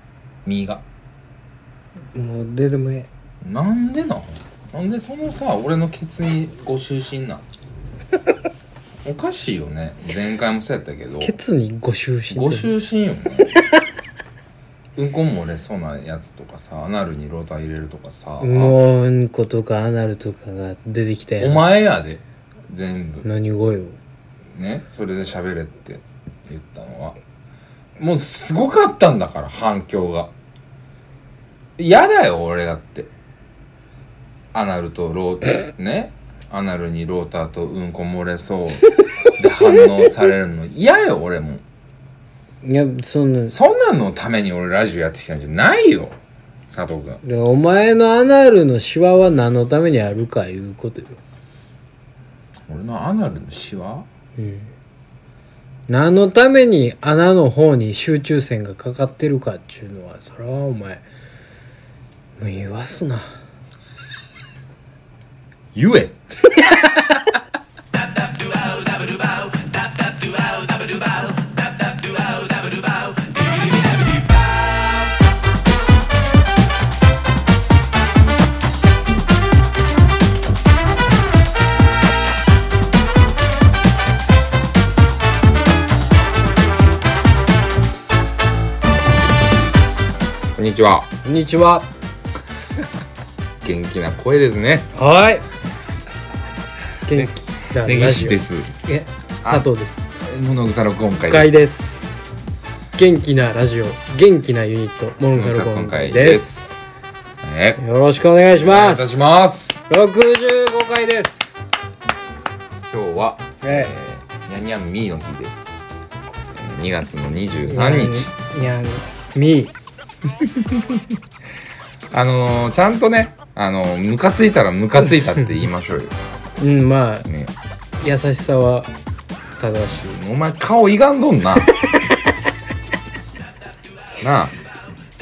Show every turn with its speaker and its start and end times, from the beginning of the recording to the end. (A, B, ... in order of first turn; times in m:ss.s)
0:00.4-0:00.8 A
0:02.1-0:03.1 B
0:03.4-0:07.4 A
0:09.0-0:11.3 A
0:11.2-0:12.7 B
0:12.3-0:13.5 A
0:13.4-0:13.8 B
0:15.0-0:18.8 A
0:18.4-0:21.6 B
0:21.4-0:23.2 A
0:23.2-0:24.0 B
0:24.5-0:27.2 A
0:28.0-0:30.3 A
0:31.8-0:33.1 A
0:34.5-0:41.6 A
0:39.6-0:39.9 B
0:42.6-0:43.5 B
0:43.5-0:46.2 A
0:46.7-0:47.2 A
0:47.2-0:51.2 B
0:52.7-0:54.0 A
0:54.4-0:54.7 B
0:55.9-1:01.0 B
1:02.4-1:03.4 B
1:05.7-1:06.6 A
1:30.6-1:31.1 A
1:31.2-1:31.9 B
1:33.6-1:34.9 A
1:34.9-1:35.4 B
1:37.0-1:40.0 B
1:37.1-1:38.7 A
1:39.4-1:39.7 A
1:40.2-1:41.6 A
1:41.3-1:42.3 B
1:43.0-1:46.8 B
1:45.2-1:46.5 A
1:47.4-1:47.8 A
1:47.8-1:49.2 B
1:48.5-1:49.8 A
1:49.9-1:51.5 B
1:52.9-1:55.7 A
1:53.6-1:53.9 B
1:56.5-1:58.3 A
1:57.6-1:59.7 B
2:02.1-2:06.1 A
2:06.6-2:07.3 B
2:07.3-2:07.5 A
2:08.0-2:08.9 B
2:09.6-2:10.2 B
2:10.1-2:11.7 A
2:14.2-2:14.6 A